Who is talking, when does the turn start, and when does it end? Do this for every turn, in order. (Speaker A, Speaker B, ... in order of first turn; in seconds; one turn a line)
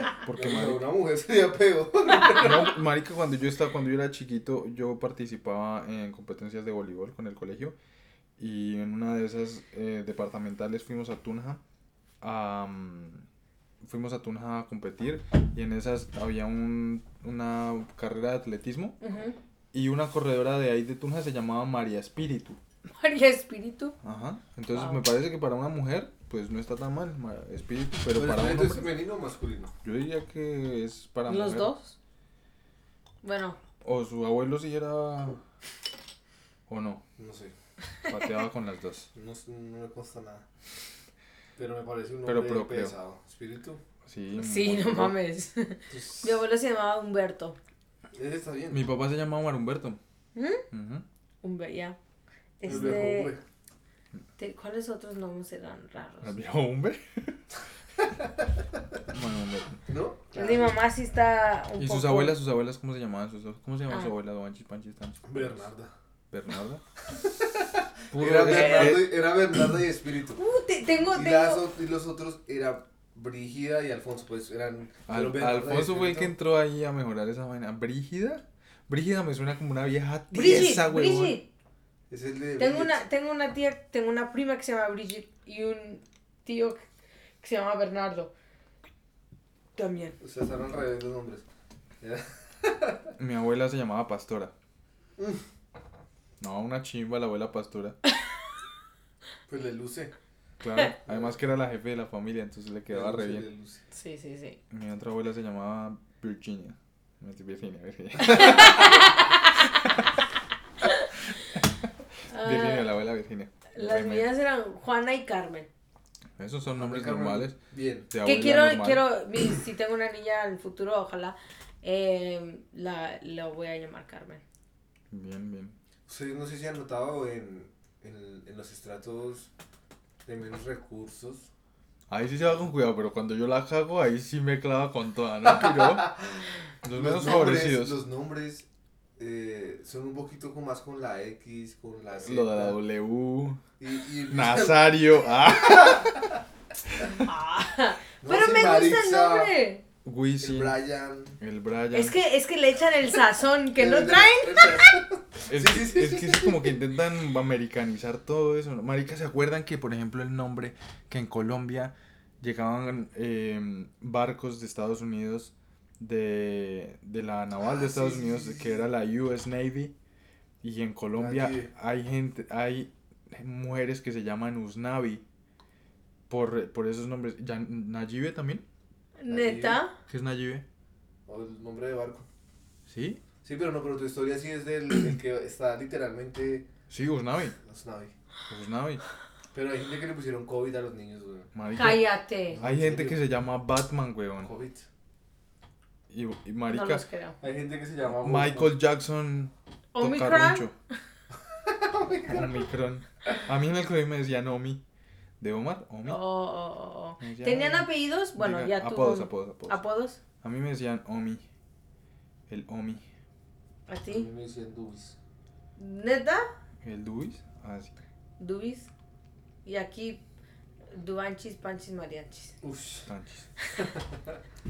Speaker A: 0.2-0.8
Speaker B: 0.3-2.8
Speaker A: 2.4-7.8
Speaker A: 8.4-11.6
Speaker A: 12.2-13.2
Speaker A: 13.8-19.0
Speaker C: 19.0-19.4
Speaker A: 19.7-22.6
Speaker C: 23.0-24.0
Speaker A: 24.0-28.9
Speaker C: 24.7-25.0
Speaker B: 28.1-29.7
Speaker A: 29.8-31.7
Speaker C: 31.3-32.0
Speaker C: 33.2-33.6
Speaker A: 33.8-35.4
Speaker A: 36.7-37.0
Speaker B: 37.2-37.5
Speaker A: 38.1-39.1
Speaker B: 39.1-40.5
Speaker B: 41.6-43.8
Speaker A: 42.2-43.0
Speaker A: 44.1-45.2
Speaker C: 44.4-47.6
Speaker B: 45.9-46.3
Speaker B: 48.1-48.9
Speaker A: 48.7-50.0
Speaker C: 50.4-50.6
Speaker A: 50.7-51.0
Speaker C: 51.4-52.0
Speaker C: 52.6-53.4
Speaker B: 52.6-53.4
Speaker A: 52.7-52.9
Speaker C: 54.4-56.5
Speaker A: 56.2-57.4
Speaker A: 59.1-59.8
Speaker B: 59.9-60.7
Speaker C: 60.4-62.4
Speaker A: 61.8-65.7
Speaker B: 65.2-65.9
Speaker A: 66.3-66.8
Speaker B: 67.1-70.4
Speaker A: 68.1-69.4
Speaker C: 68.5-69.0
Speaker C: 70.3-71.6
Speaker B: 71.1-76.3
Speaker A: 75.1-81.4
Speaker C: 80.3-81.5
Speaker B: 82.1-83.0
Speaker C: 82.6-86.8
Speaker C: 87.4-88.3
Speaker C: 89.8-90.2
Speaker B: 90.2-91.5
Speaker B: 92.0-93.1
Speaker A: 93.2-94.5
Speaker B: 95.2-95.4
Speaker A: 96.4-98.0
Speaker B: 99.5-100.1
Speaker A: 100.6-103.5
Speaker B: 101.1-101.3
Speaker B: 102.9-103.8
Speaker C: 103.9-104.6
Speaker A: 104.7-110.2
Speaker C: 108.2-109.5
Speaker A: 111.4-111.7
Speaker C: 112.3-112.9
Speaker A: 112.4-114.3
Speaker C: 113.7-115.7
Speaker A: 116.4-117.5
Speaker B: 116.7-118.1
Speaker A: 118.1-119.1
Speaker C: 118.2-124.4
Speaker A: 125.1-125.8
Speaker B: 126.1-129.5
Speaker B: 130.2-131.5
Speaker A: 132.1-136.1
Speaker B: 135.6-138.7
Speaker A: 136.8-138.0
Speaker B: 139.2-142.8
Speaker A: 142.2-143.6
Speaker B: 143.8-146.4
Speaker A: 144.3-146.2
Speaker C: 147.0-149.8
Speaker B: 148.2-149.5
Speaker A: 150.0-150.8
Speaker B: 150.4-151.4
Speaker A: 151.4-152.2
Speaker C: 151.9-155.0
Speaker B: 153.8-156.8
Speaker A: 155.5-169.9
Speaker B: 167.6-168.9
Speaker A: 170.6-175.2
Speaker B: 171.1-171.7
Speaker A: 176.3-178.6
Speaker C: 179.2-179.9
Speaker B: 179.3-179.8
Speaker A: 180.1-180.6
Speaker B: 181.2-182.2
Speaker A: 182.9-183.2
Speaker B: 183.4-186.7
Speaker A: 186.9-187.6
Speaker B: 187.6-188.1
Speaker A: 188.5-189.0
Speaker B: 189.5-191.5
Speaker A: 191.5-192.1
Speaker C: 191.8-192.6
Speaker B: 192.5-193.2
Speaker A: 192.6-194.5
Speaker B: 194.4-194.8
Speaker A: 196.1-197.0
Speaker C: 196.7-197.4
Speaker B: 197.4-198.8
Speaker A: 198.1-200.8
Speaker C: 199.9-200.7
Speaker B: 201.6-202.6
Speaker A: 202.3-204.8
Speaker A: 205.4-206.2
Speaker C: 206.0-210.2
Speaker A: 207.2-209.8
Speaker A: 210.4-211.4
Speaker A: 212.5-213.0
Speaker C: 213.9-214.3
Speaker B: 214.1-215.2
Speaker C: 215.8-216.4
Speaker A: 216.8-218.0
Speaker C: 218.4-218.9
Speaker C: 219.6-220.2
Speaker C: 220.9-222.5
Speaker B: 222.6-223.1
Speaker A: 223.1-223.5
Speaker B: 223.8-224.3